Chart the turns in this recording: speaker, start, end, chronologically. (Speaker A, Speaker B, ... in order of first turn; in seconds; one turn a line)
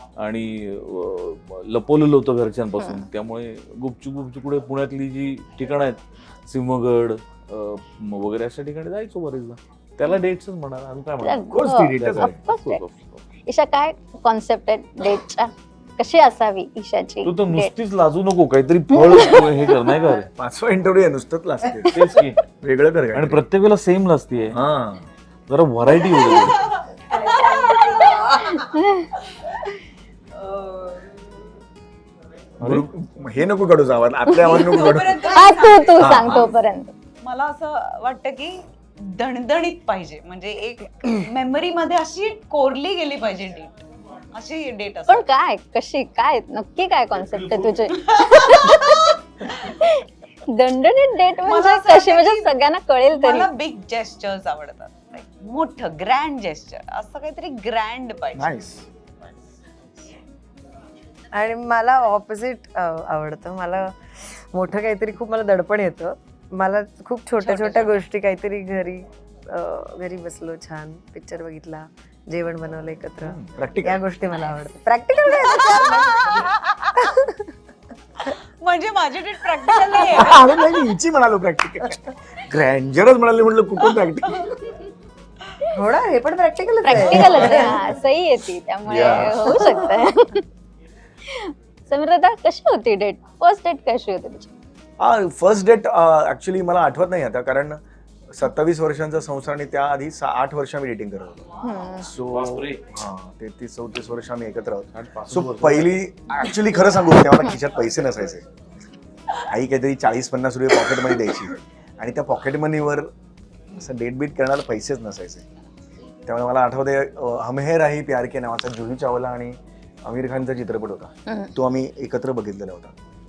Speaker A: 0.2-13.2
Speaker B: 2.8-3.0
Speaker B: 11.2-12.8
Speaker C: 11.5-12.3
Speaker B: 13.4-17.7
Speaker A: 17.2-20.3
Speaker B: 18.9-19.7
Speaker C: 20.4-23.4
Speaker A: 21.9-22.4
Speaker A: 23.1-24.6
Speaker C: 24.5-25.1
Speaker A: 25.5-26.7
Speaker D: 26.3-28.6
Speaker E: 27.1-28.6
Speaker B: 28.6-29.1
Speaker E: 30.4-30.9
Speaker A: 32.6-32.9
Speaker C: 32.6-35.2
Speaker B: 34.4-36.9
Speaker D: 34.4-36.5
Speaker C: 36.0-36.5
Speaker D: 37.2-45.2
Speaker B: 45.1-53.5
Speaker D: 47.9-49.0
Speaker D: 51.4-52.5
Speaker D: 53.1-58.5
Speaker C: 58.3-58.9
Speaker E: 61.3-77.4
Speaker D: 67.4-68.0
Speaker C: 73.4-74.0
Speaker D: 75.4-77.0
Speaker D: 78.3-80.6
Speaker C: 80.1-84.6
Speaker E: 85.6-88.0
Speaker B: 86.8-90.4
Speaker D: 87.3-87.6
Speaker C: 88.9-89.4
Speaker A: 88.9-89.6
Speaker E: 89.4-90.1
Speaker B: 91.2-94.5
Speaker C: 95.0-101.4
Speaker B: 101.6-102.1
Speaker C: 102.0-108.5
Speaker A: 102.2-102.9
Speaker A: 104.9-106.0
Speaker C: 109.4-113.1
Speaker C: 113.8-115.4
Speaker C: 116.2-122.9
Speaker B: 121.3-121.5